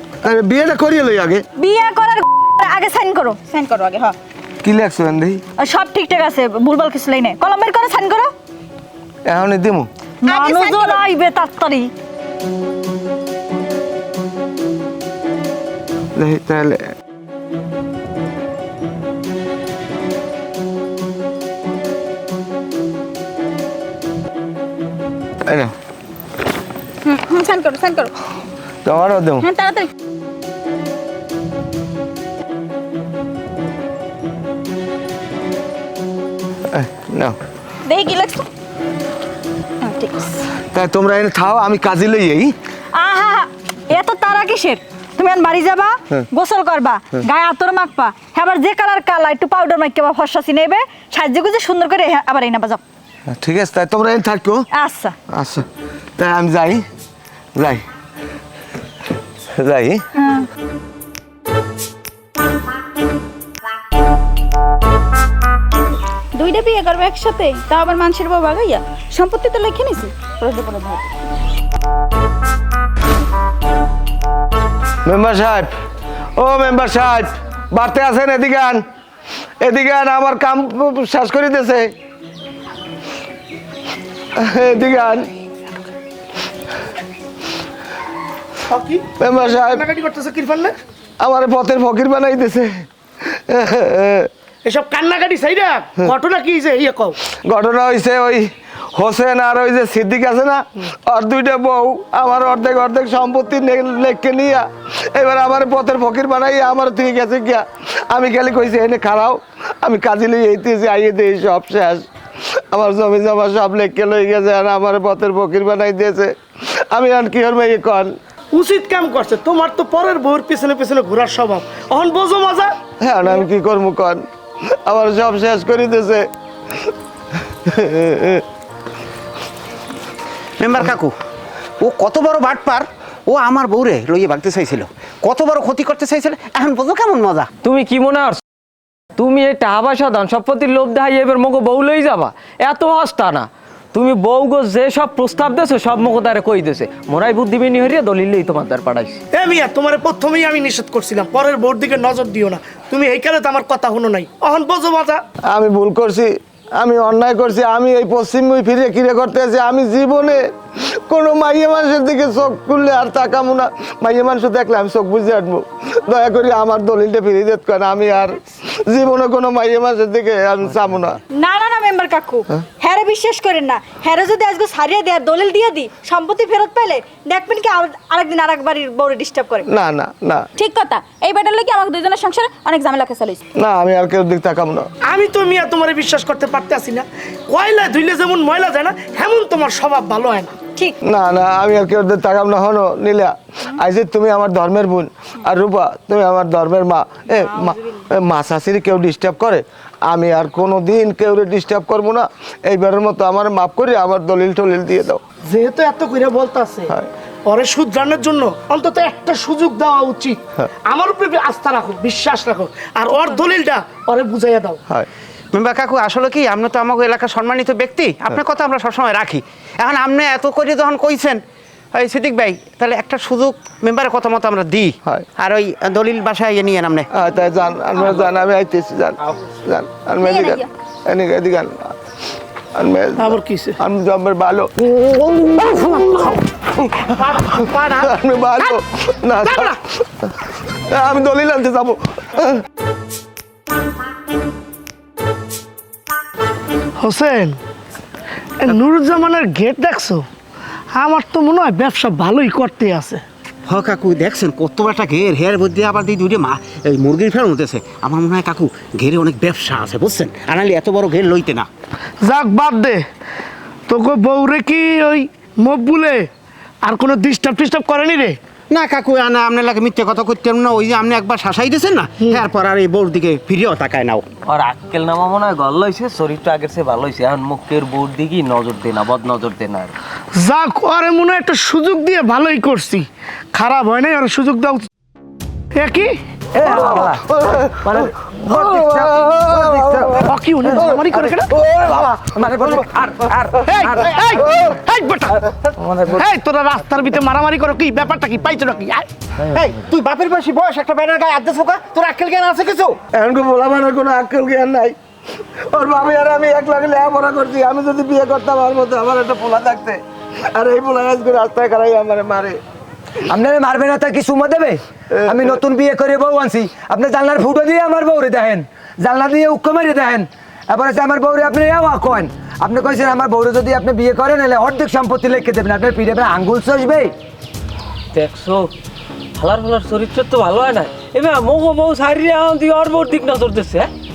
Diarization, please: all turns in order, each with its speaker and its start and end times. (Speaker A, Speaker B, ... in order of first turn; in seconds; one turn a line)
Speaker A: 0.2-1.4
Speaker B: 1.6-3.4
Speaker C: 3.5-4.2
Speaker A: 4.6-5.4
Speaker B: 5.6-8.3
Speaker A: 9.2-9.9
Speaker B: 10.2-11.9
Speaker C: 10.3-11.0
Speaker A: 16.1-16.9
Speaker A: 25.5-25.7
Speaker C: 27.0-28.1
Speaker A: 28.8-29.5
Speaker C: 29.4-29.9
Speaker A: 36.7-37.4
Speaker C: 37.9-38.4
Speaker C: 39.8-40.4
Speaker A: 40.7-42.5
Speaker B: 42.9-52.8
Speaker A: 53.3-54.7
Speaker B: 54.7-55.1
Speaker A: 55.3-56.9
Speaker A: 57.6-57.9
Speaker A: 59.5-60.0
Speaker B: 60.1-60.5
Speaker C: 66.3-71.1
Speaker A: 75.0-75.7
Speaker A: 76.4-78.8
Speaker A: 79.6-81.9
Speaker A: 84.3-85.3
Speaker D: 88.7-90.7
Speaker A: 89.2-89.8
Speaker A: 91.2-94.3
Speaker D: 94.6-97.1
Speaker A: 97.3-118.1
Speaker D: 118.5-122.7
Speaker A: 123.0-126.9
Speaker A: 127.5-128.4
Speaker E: 130.6-131.1
Speaker E: 131.8-137.5
Speaker F: 137.6-138.4
Speaker F: 139.2-149.2
Speaker D: 149.3-155.2
Speaker A: 155.4-171.2
Speaker B: 171.3-179.7
Speaker A: 179.7-180.5
Speaker C: 180.6-183.4
Speaker A: 183.6-184.9
Speaker D: 185.1-190.6
Speaker A: 191.0-205.2
Speaker D: 205.5-206.9
Speaker D: 207.5-214.8
Speaker E: 215.5-221.4
Speaker E: 221.9-227.1
Speaker A: 227.1-231.9
Speaker C: 230.2-230.7
Speaker A: 232.7-234.7
Speaker D: 233.2-233.8
Speaker D: 235.0-236.3
Speaker A: 235.8-242.7
Speaker D: 237.1-238.1
Speaker D: 239.4-239.7
Speaker D: 247.0-247.6
Speaker D: 248.6-250.2
Speaker D: 250.9-253.2
Speaker E: 253.7-261.7
Speaker D: 262.2-263.0
Speaker D: 263.9-266.3
Speaker D: 266.8-268.4
Speaker E: 268.7-274.2
Speaker F: 274.4-279.9
Speaker D: 280.4-284.9
Speaker D: 285.7-286.1
Speaker G: 286.6-294.2
Speaker A: 286.6-290.3
Speaker D: 290.2-291.5
Speaker A: 291.5-292.1
Speaker D: 293.6-299.1
Speaker E: 299.4-303.0
Speaker A: 303.1-304.9
Speaker A: 305.6-312.6
Speaker G: 313.3-327.1
Speaker A: 315.2-315.5
Speaker F: 328.1-328.7
Speaker F: 329.4-333.9